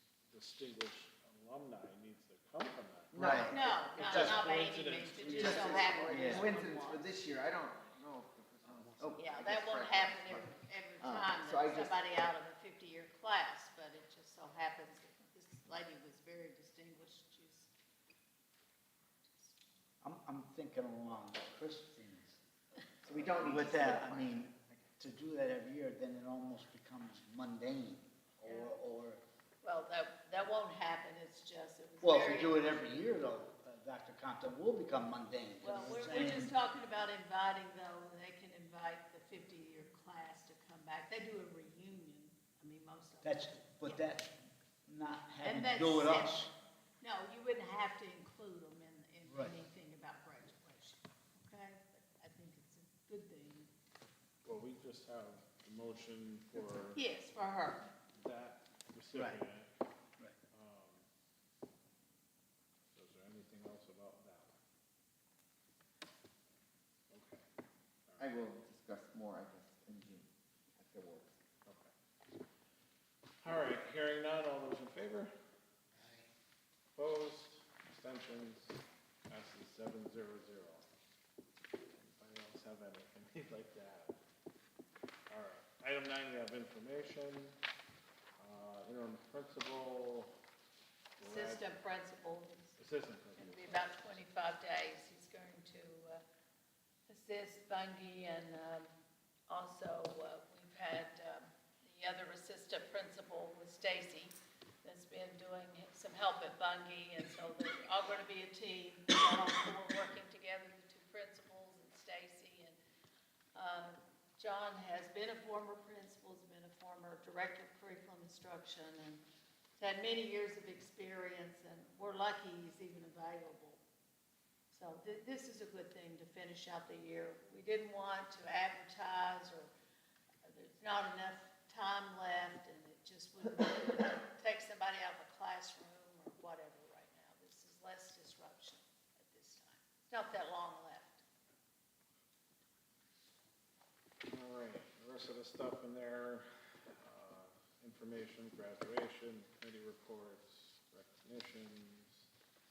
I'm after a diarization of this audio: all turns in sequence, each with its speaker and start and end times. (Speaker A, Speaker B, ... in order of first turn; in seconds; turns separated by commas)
Speaker A: 0.3-5.8, Speaker B: 3.1-3.8, Speaker C: 3.1-4.5, Speaker D: 3.3-7.1, Speaker B: 5.3-12.0, Speaker C: 5.4-6.5, Speaker D: 9.2-17.7, Speaker D: 19.2-19.6, Speaker C: 20.0-22.4, Speaker B: 23.0-24.9, Speaker C: 23.1-29.2, Speaker D: 28.4-28.7, Speaker D: 29.6-32.8, Speaker C: 32.0-36.5, Speaker D: 35.6-44.2, Speaker C: 43.2-46.5, Speaker D: 45.4-53.7, Speaker C: 49.3-49.5, Speaker A: 54.4-57.0, Speaker D: 56.9-57.9, Speaker A: 58.1-59.7, Speaker C: 59.1-59.4, Speaker A: 60.5-61.0, Speaker A: 62.9-64.6, Speaker A: 67.1-67.4, Speaker A: 68.1-68.3, Speaker B: 68.2-70.3, Speaker B: 70.8-71.3, Speaker A: 71.7-71.9, Speaker A: 73.4-75.3, Speaker A: 76.9-80.8, Speaker A: 81.9-84.2, Speaker A: 85.3-87.6, Speaker A: 88.4-90.3, Speaker A: 91.2-91.7, Speaker D: 91.2-92.8, Speaker A: 92.8-93.9, Speaker D: 93.3-96.2, Speaker D: 97.1-98.9, Speaker D: 99.5-112.8, Speaker D: 113.5-119.2, Speaker D: 119.8-123.8, Speaker D: 124.7-129.7, Speaker D: 130.4-141.2, Speaker A: 144.2-146.5, Speaker A: 147.0-152.3